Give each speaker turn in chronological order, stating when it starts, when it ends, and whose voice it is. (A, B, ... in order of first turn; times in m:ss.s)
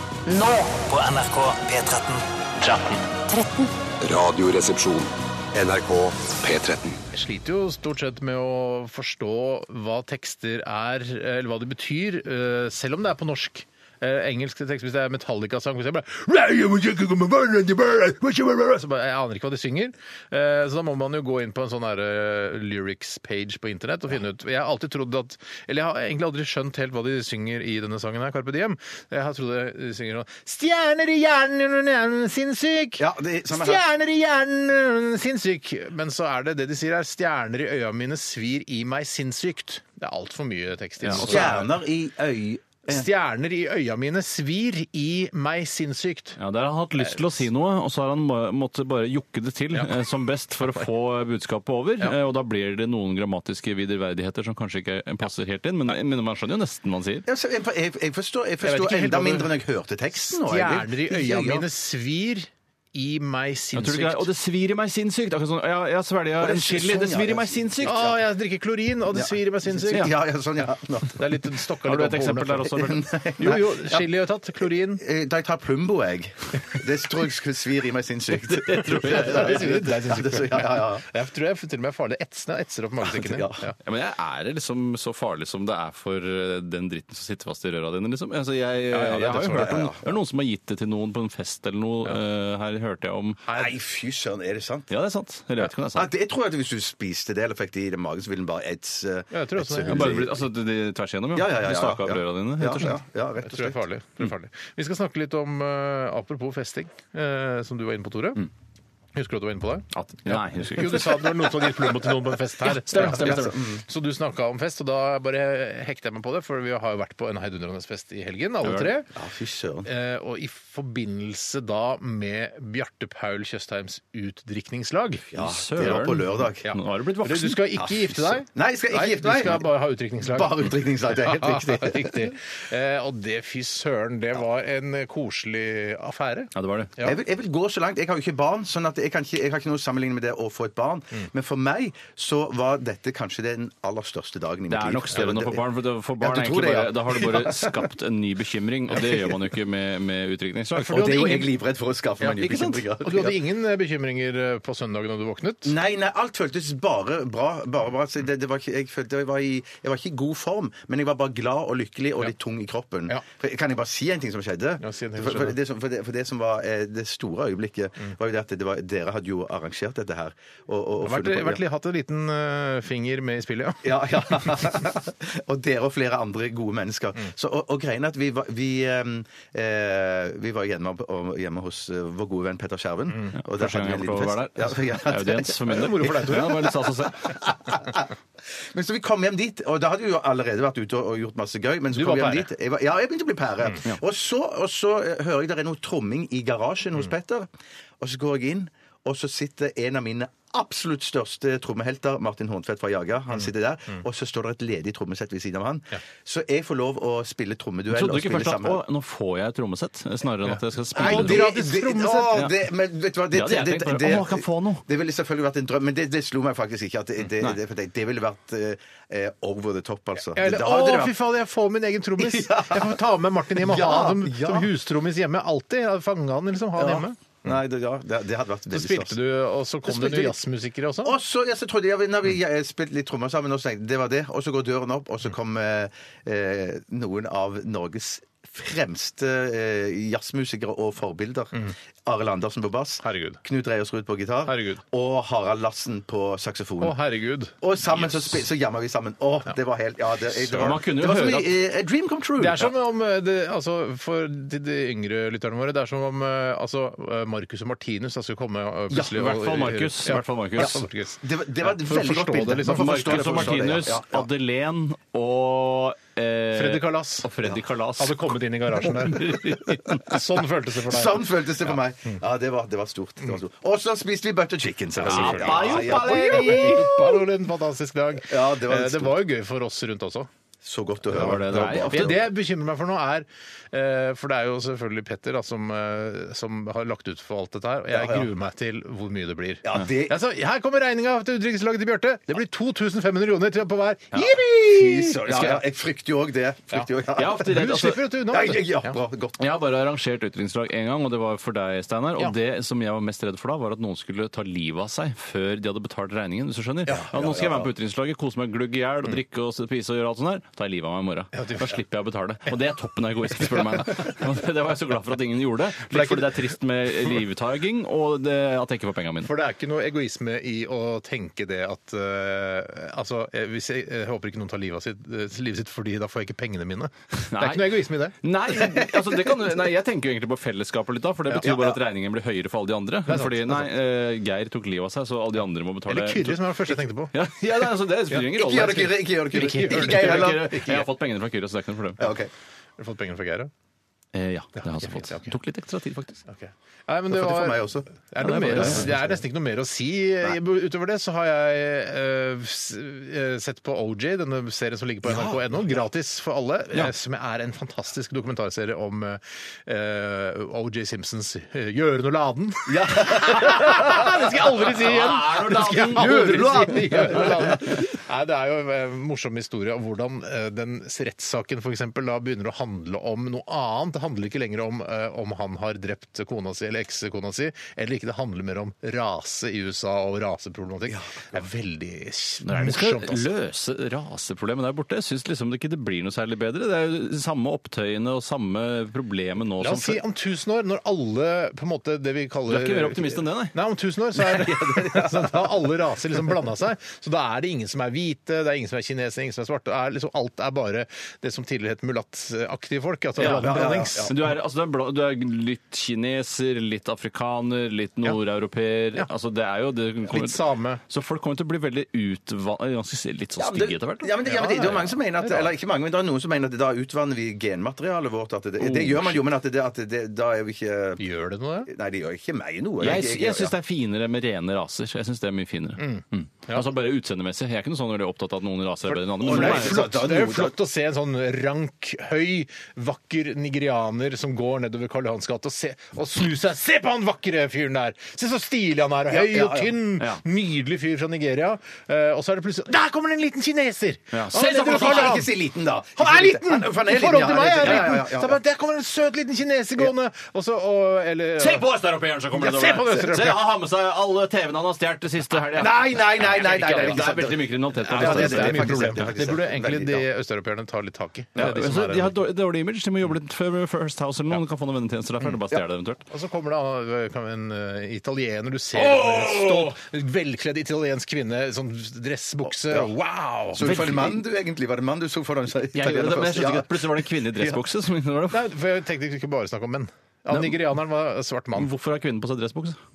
0:00.3-0:03.7 A
0:04.0-0:07.0 B
0:07.1-0:41.7 C
0:33.0-0:33.8 D
0:41.0-0:41.6 E
0:41.2-0:43.1 D
0:42.9-0:46.4 C
0:46.4-0:57.3 E
0:57.3-1:01.7 D
0:58.6-0:59.5 C
1:00.2-1:04.3 C
1:03.7-1:08.1 E
1:06.4-1:08.2 D
1:07.8-1:10.2 C
1:09.1-1:11.5 D
1:11.2-1:15.0 C
1:11.8-1:13.0 E
1:12.7-1:14.1 D
1:14.9-1:21.0 D
1:18.4-1:19.8 E
1:19.0-1:23.8 C
1:23.0-1:23.6 D
1:23.8-1:33.4 E
1:28.9-1:29.8 C
1:29.5-1:30.2 D
1:33.5-1:33.7 C
1:33.5-1:34.9 D
1:34.9-1:36.1 E
1:35.9-1:40.4 D
1:39.3-1:40.3 C
1:39.9-1:43.0 E
1:41.3-1:43.8 D
1:43.4-1:48.5 C
1:49.1-1:59.1 C
1:49.9-1:51.3 E
1:52.6-1:53.5 E
1:52.9-1:53.8 D
1:58.6-1:58.9 E
1:59.2-1:59.9 D
1:59.8-2:05.3 C
2:05.3-2:06.7 D
2:05.4-2:07.6 E
2:06.6-2:17.2 C
2:07.8-2:09.7 D
2:10.2-2:12.3 D
2:16.6-2:16.9 E
2:17.0-2:25.7 D
2:24.7-2:31.1 E
2:26.2-2:27.8 D
2:30.8-2:31.6 C
2:30.8-2:33.4 D
2:32.2-2:35.7 C
2:35.6-2:51.6 D
2:44.8-2:45.6 C
2:51.0-2:54.6 C
2:53.8-3:06.6 D
3:03.4-3:07.4 E
3:05.6-3:06.7 C
3:07.2-3:17.5 D
3:11.9-3:12.5 C
3:18.0-3:28.8 D
3:27.9-3:31.5 E
3:30.9-3:32.5 C
3:31.0-3:41.2 D
3:33.3-3:34.8 E
3:40.3-3:47.4 C
3:42.2-3:43.0 D
3:43.6-3:44.7 D
3:46.8-3:49.2 D
3:48.7-3:51.2 C
3:49.9-3:50.4 D
3:51.0-4:07.0 D
4:03.0-4:03.4 C
4:04.5-4:04.8 C
4:06.8-4:07.6 C
4:07.6-4:12.7 D
4:10.5-4:11.2 C
4:10.6-4:11.5 E
4:12.4-4:23.6 C
4:18.9-4:19.3 D
4:19.2-4:20.8 E
4:20.6-4:24.3 D
4:22.7-4:28.2 E
4:26.6-4:27.3 C
4:28.0-4:31.5 C
4:28.8-4:29.8 E
4:30.8-4:37.2 D
4:35.0-4:40.3 C
4:35.0-4:36.9 E
4:38.2-4:39.2 D
4:40.6-4:42.3 D
4:41.1-4:42.2 E
4:41.1-4:55.6 C
4:47.9-4:48.3 D
4:49.6-4:50.2 D
4:54.6-4:57.6 D
4:55.3-4:55.6 E
4:57.2-4:58.0 E
4:57.4-4:59.0 C
4:58.3-4:59.5 D
4:59.4-5:19.3 E
5:06.9-5:07.7 D
5:11.3-5:11.8 C
5:15.9-5:16.5 C
5:19.2-5:28.2 C
5:27.2-5:42.0 E
5:31.4-5:31.8 D
5:33.1-5:33.7 C
5:35.9-5:37.1 C
5:38.1-5:40.9 D
5:39.3-5:40.4 C
5:42.0-5:42.3 D
5:42.8-5:43.5 C
5:44.1-5:46.2 E
5:44.6-5:45.3 C
5:46.3-6:23.3 C
5:47.1-5:47.9 D
5:48.2-5:48.9 E
5:48.4-5:49.2 D
5:55.1-5:55.4 D
6:02.7-6:04.5 D
6:04.8-6:07.3 E
6:05.8-6:07.8 D
6:20.9-6:21.4 D
6:22.4-6:30.0 E
6:29.6-6:44.2 C
6:32.5-6:33.6 E
6:34.2-6:35.7 D
6:43.2-6:44.2 D
6:43.2-6:54.1 E
6:50.1-6:50.8 C
6:53.4-7:01.0 D
6:54.2-6:55.5 C
6:58.6-6:59.2 E
7:01.0-7:01.7 C
7:01.6-7:03.5 D
7:02.8-7:09.8 E
7:05.8-7:06.6 C
7:08.9-7:25.3 C
7:09.2-7:10.6 D
7:19.1-7:19.8 D
7:24.1-7:25.2 E
7:24.3-7:28.4 D
7:26.0-7:31.7 C
7:31.4-7:39.1 E
7:32.3-7:33.5 C
7:35.6-7:40.1 D
7:36.3-7:37.1 C
7:37.8-7:42.2 C
7:41.4-7:46.0 E
7:46.1-7:53.7 C
7:48.8-7:49.7 D
7:52.6-7:52.9 D
7:53.5-7:57.6 D
7:53.6-7:54.2 E
7:55.7-7:58.4 E
7:58.3-8:01.7 C
8:01.6-8:02.8 E